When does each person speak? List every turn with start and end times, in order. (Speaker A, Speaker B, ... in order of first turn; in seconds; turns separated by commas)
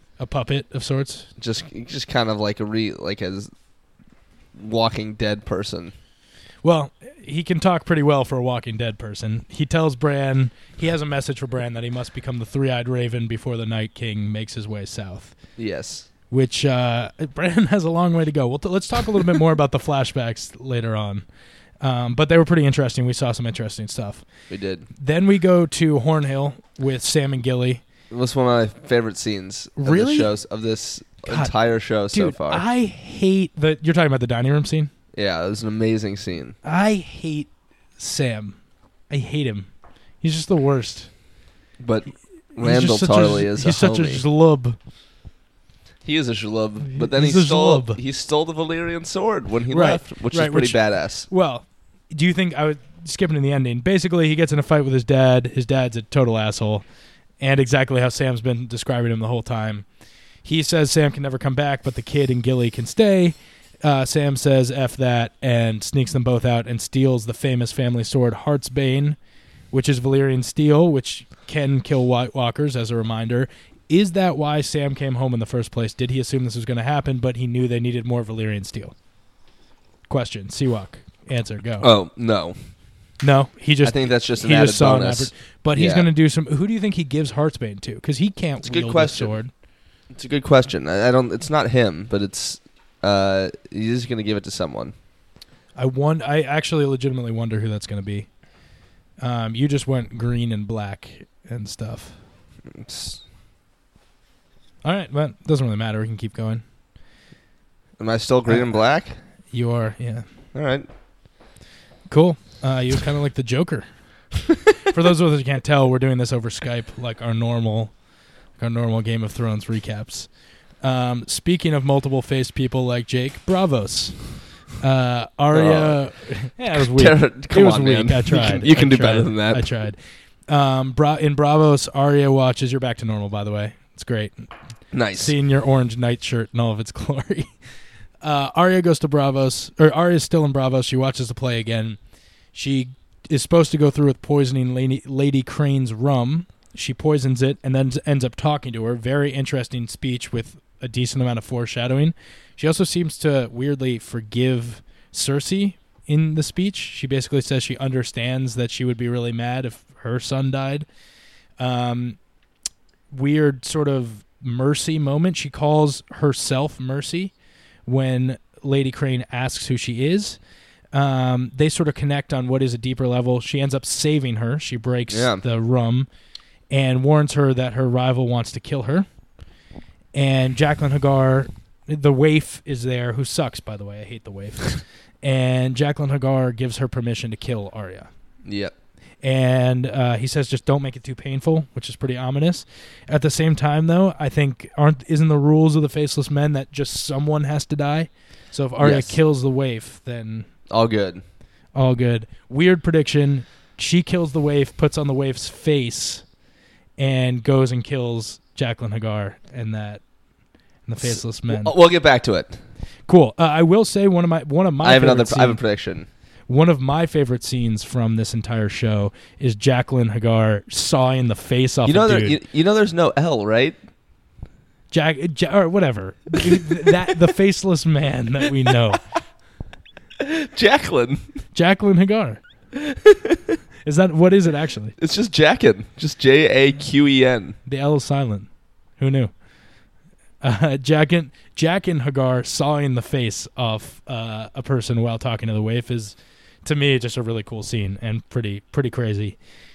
Speaker A: 0.2-1.3, Speaker B: 1.4-3.5, Speaker B: 4.5-5.9, Speaker A: 6.6-15.3, Speaker B: 15.6-16.1, Speaker A: 16.3-21.2, Speaker A: 21.8-24.2, Speaker B: 24.5-24.9, Speaker A: 24.9-27.8, Speaker B: 28.1-32.6, Speaker A: 29.8-30.3, Speaker A: 31.3-31.5, Speaker A: 32.1-34.9, Speaker B: 35.1-36.5, Speaker A: 36.6-38.6, Speaker A: 39.1-39.7, Speaker A: 40.2-41.1, Speaker B: 41.8-44.2, Speaker A: 42.5-44.8, Speaker B: 46.0-51.3, Speaker A: 46.9-48.0, Speaker A: 49.7-56.8, Speaker A: 57.4-59.8, Speaker A: 60.4-69.2, Speaker A: 69.7-78.9, Speaker A: 80.1-81.9, Speaker B: 81.8-82.5, Speaker A: 83.2-89.5, Speaker B: 83.8-86.1, Speaker B: 88.6-89.3, Speaker B: 90.1-94.9, Speaker A: 95.8-98.3, Speaker A: 99.2-102.2, Speaker B: 102.7-103.2, Speaker A: 104.8-106.6, Speaker B: 108.0-109.2, Speaker A: 109.5-110.2, Speaker B: 110.5-110.9, Speaker A: 112.1-113.8, Speaker A: 114.8-117.9, Speaker A: 118.6-120.3, Speaker A: 120.8-134.5, Speaker B: 125.5-126.0, Speaker B: 126.8-129.7, Speaker B: 134.9-135.3, Speaker A: 135.1-137.5, Speaker A: 138.2-142.0, Speaker A: 142.5-160.8, Speaker A: 161.6-162.2, Speaker A: 163.1-167.3, Speaker A: 167.8-170.4, Speaker A: 170.9-176.1, Speaker B: 175.1-175.4, Speaker A: 176.7-179.1, Speaker A: 180.1-188.1, Speaker B: 188.4-188.7, Speaker A: 189.2-200.5, Speaker B: 198.8-199.2, Speaker B: 200.7-201.2, Speaker A: 201.7-206.2, Speaker A: 207.0-210.0, Speaker A: 210.8-211.7, Speaker B: 211.0-212.6, Speaker A: 213.1-215.6, Speaker B: 214.8-216.1, Speaker A: 216.5-222.4, Speaker B: 221.8-223.8, Speaker A: 224.9-229.0, Speaker B: 230.2-231.2, Speaker A: 231.5-232.4, Speaker B: 232.8-233.5, Speaker A: 233.8-234.9, Speaker B: 235.0-237.6, Speaker A: 237.7-239.3, Speaker A: 240.4-249.4